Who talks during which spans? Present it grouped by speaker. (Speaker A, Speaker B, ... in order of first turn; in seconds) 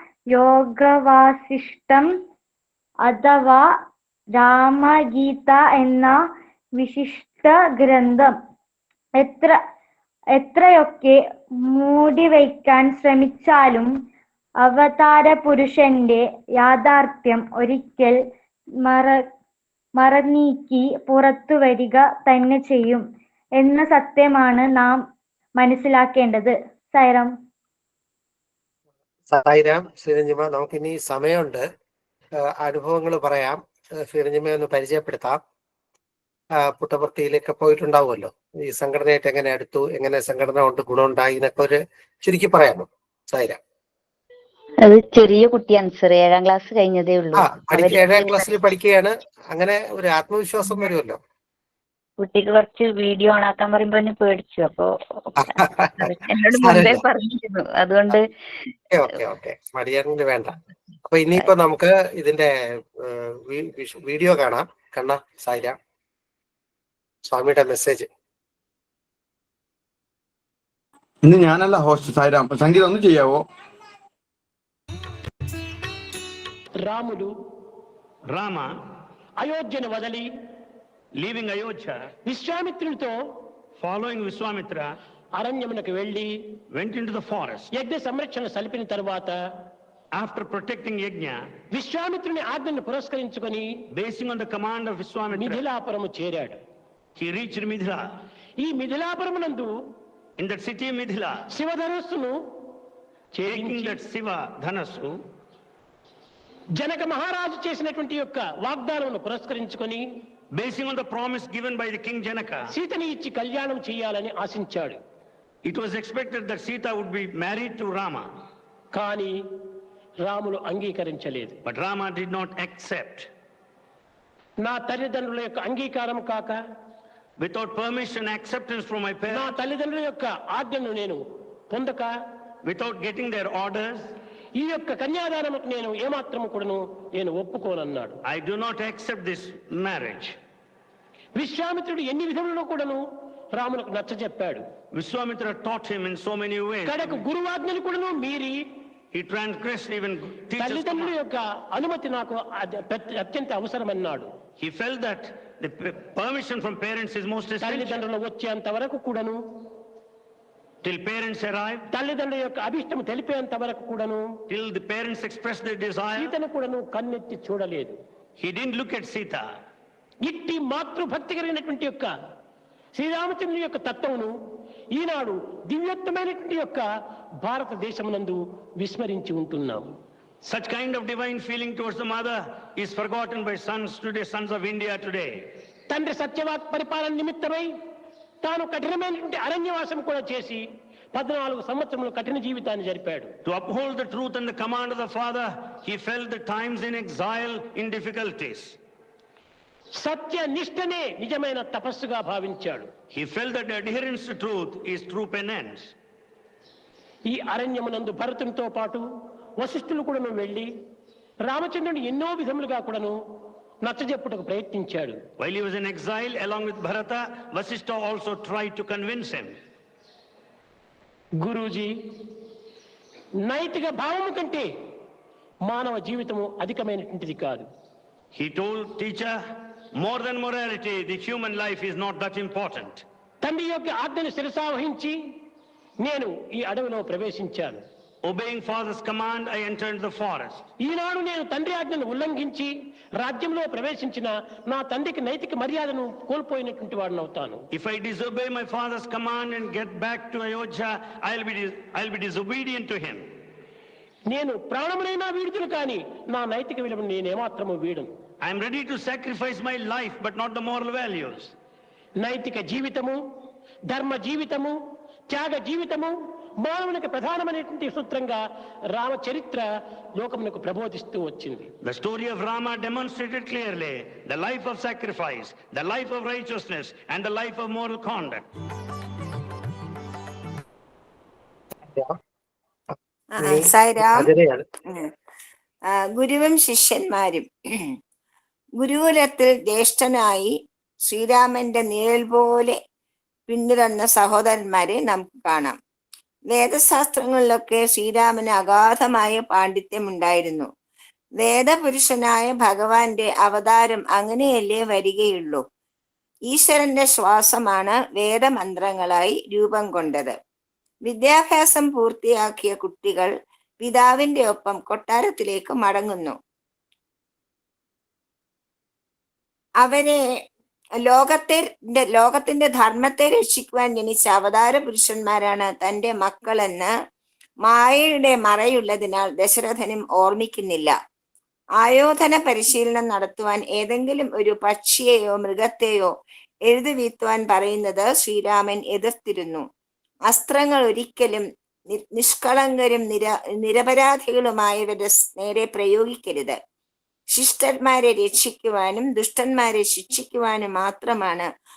Speaker A: 0.3-2.1, 3.0-3.7, 4.3-6.1, 6.8-8.3, 9.2-9.5, 10.4-11.2, 11.7-13.9, 14.6-18.2, 18.9-19.2, 20.0-23.0, 23.6-25.0, 25.6-27.3
Speaker B: 29.3-31.6, 32.6-35.4, 36.6-43.6, 47.4-51.2, 55.4-57.0, 58.9-60.5, 61.0-62.5, 63.0-65.8, 67.3-68.1, 283.4-284.7
Speaker C: 44.8-48.5, 52.2-58.3
Speaker D: 71.2-73.4
Speaker E: 76.8-77.3, 79.4-80.3, 82.3-83.1, 85.4-86.3, 87.7-89.3, 91.7-93.7, 95.3-96.6, 98.6-99.7, 101.5-102.3, 103.4-104.0, 106.8-110.0, 112.7-115.0, 118.9-119.3, 120.2-121.6, 124.6-126.6, 129.3-132.1, 134.6-138.2, 141.4-143.0, 143.6-144.6, 146.9-148.5, 150.6-154.3, 157.6-159.4, 161.9-164.3, 166.2-167.9, 170.2-172.1, 172.9-174.3, 174.9-176.9, 177.4-179.9, 185.9-187.7, 188.4-190.6, 191.1-193.3, 200.0-202.9, 207.3-209.0, 209.6-210.7, 211.5-213.1, 213.8-215.2, 221.4-221.9, 223.4-224.7, 225.7-227.7, 233.4-235.3, 236.0-237.8, 240.8-247.6, 254.3-258.1, 262.2-263.2, 263.9-264.8, 265.3-269.6, 270.2-271.7
Speaker F: 78.3-78.7, 81.2-82.1, 83.8-84.9, 86.7-87.7, 90.1-91.4, 93.9-95.6, 97.2-98.1, 100.4-101.5, 103.5-105.1, 110.5-112.7, 115.7-118.3, 121.7-123.3, 127.4-129.5, 132.6-134.1, 138.2-140.4, 144.9-147.2, 149.1-151.2, 154.6-158.0, 160.8-161.9, 164.5-166.3, 168.4-169.4, 180.5-185.4, 193.4-198.8, 203.1-205.9, 215.4-219.6, 228.3-229.4, 230.0-233.0, 238.2-240.7, 247.7-253.2, 258.4-261.5, 271.8-278.5
Speaker G: 283.4-284.3, 285.9-288.0, 288.8-290.6, 291.1-292.8, 293.5-295.8, 296.5-300.7, 301.4-305.6, 306.5-310.4, 311.1-313.3, 313.8-316.4, 319.8-320.2, 321.1-326.9, 327.6-330.9, 331.8-336.1, 336.7-339.6, 340.3-346.6, 347.3-351.5